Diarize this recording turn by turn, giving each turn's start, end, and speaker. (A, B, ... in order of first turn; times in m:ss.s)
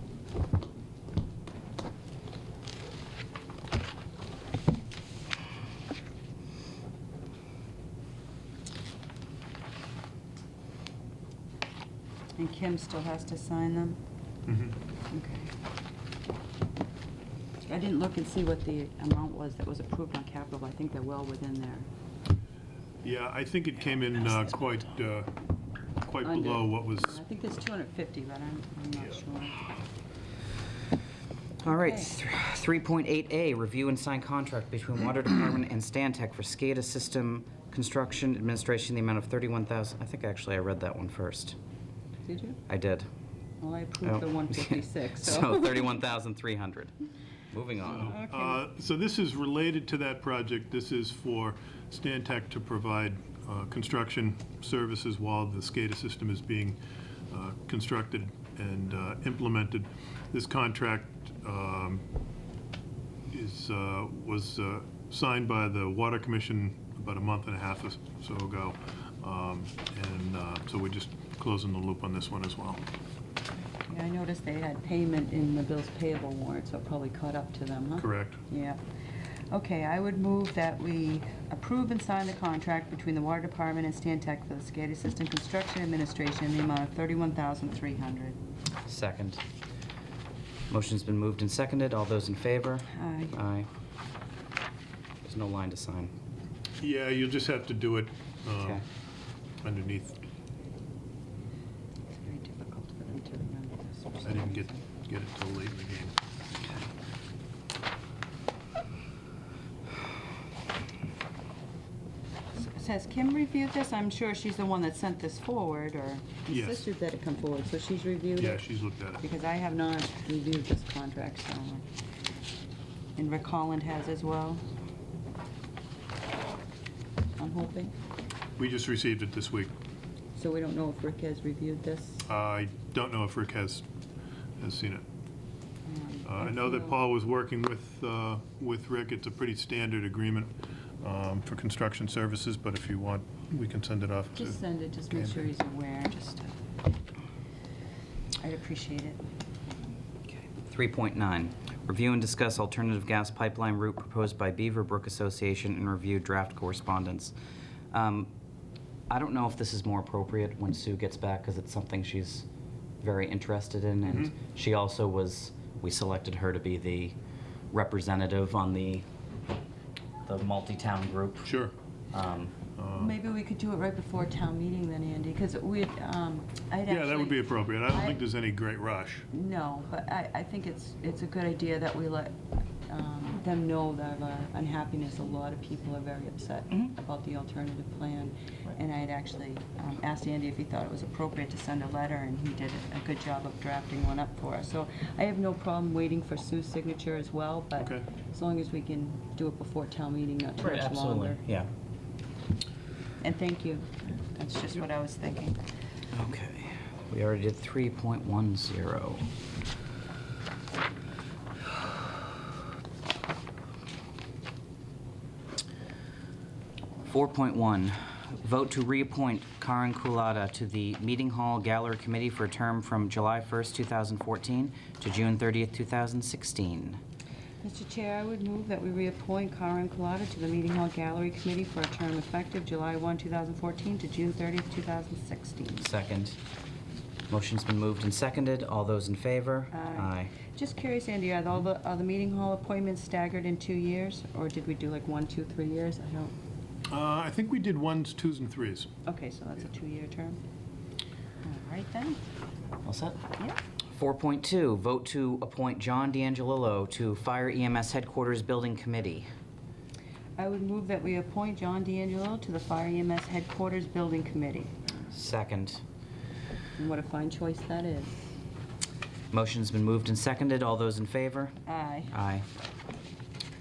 0:12.4-0:14.0 A
0:14.5-0:14.8 B
0:15.1-0:15.5 A
0:17.6-0:21.9 A
0:23.0-0:25.3 B
0:26.0-0:27.2 B
0:26.2-0:29.6 A
0:31.6-0:41.6 C
0:31.7-0:32.1 A
0:42.3-0:42.6 A
0:42.7-0:43.1 C
0:43.6-0:45.9 A
0:44.0-0:46.9 C
0:47.5-0:48.2 C
0:47.9-0:48.6 A
0:47.9-0:56.8 B
0:57.3-1:02.0 B
1:03.3-1:12.8 B
1:13.9-1:18.8 A
1:18.0-1:18.4 B
1:19.5-1:28.4 A
1:28.9-1:29.4 C
1:30.7-1:33.7 C
1:32.9-1:33.4 A
1:35.2-1:36.1 C
1:36.8-1:38.8 B
1:38.6-1:38.8 C
1:39.6-1:40.2 B
1:42.1-1:44.9 A
1:44.2-1:46.1 B
1:52.6-1:58.7 A
1:56.5-1:56.9 B
1:58.4-1:59.2 B
1:59.2-2:01.9 A
2:03.2-2:04.6 A
2:07.4-2:07.9 A
2:08.6-2:09.7 B
2:10.4-2:12.2 A
2:12.3-2:13.8 B
2:14.6-2:15.0 B
2:15.8-2:17.0 A
2:16.3-2:24.6 B
2:24.3-2:26.6 A
2:28.4-2:29.3 A
2:30.3-2:37.3 C
2:37.9-2:38.3 C
2:39.1-2:42.5 C
2:43.0-2:47.2 C
2:47.7-2:49.1 C
2:50.2-2:51.5 C
2:51.4-2:51.7 B
2:52.1-2:52.5 C
2:52.8-2:53.2 B
2:52.9-2:58.2 A
2:56.9-2:59.3 B
2:59.3-3:21.4 A
3:17.8-3:18.1 B
3:20.6-3:21.7 C
3:23.2-3:25.6 A
3:26.1-3:29.3 C
3:37.1-3:47.0 C
3:47.6-3:55.9 A
3:55.8-3:56.4 C
3:57.3-4:00.3 C
3:59.7-4:06.4 A
4:06.9-4:08.9 B
4:09.0-4:10.4 A
4:11.4-4:12.3 A
4:12.8-4:13.2 C
4:13.9-4:19.3 C
4:20.4-4:24.7 A
4:25.1-4:25.8 C
4:26.8-4:28.3 A
4:29.3-4:31.5 C
4:31.7-4:32.2 A
4:32.1-4:32.4 C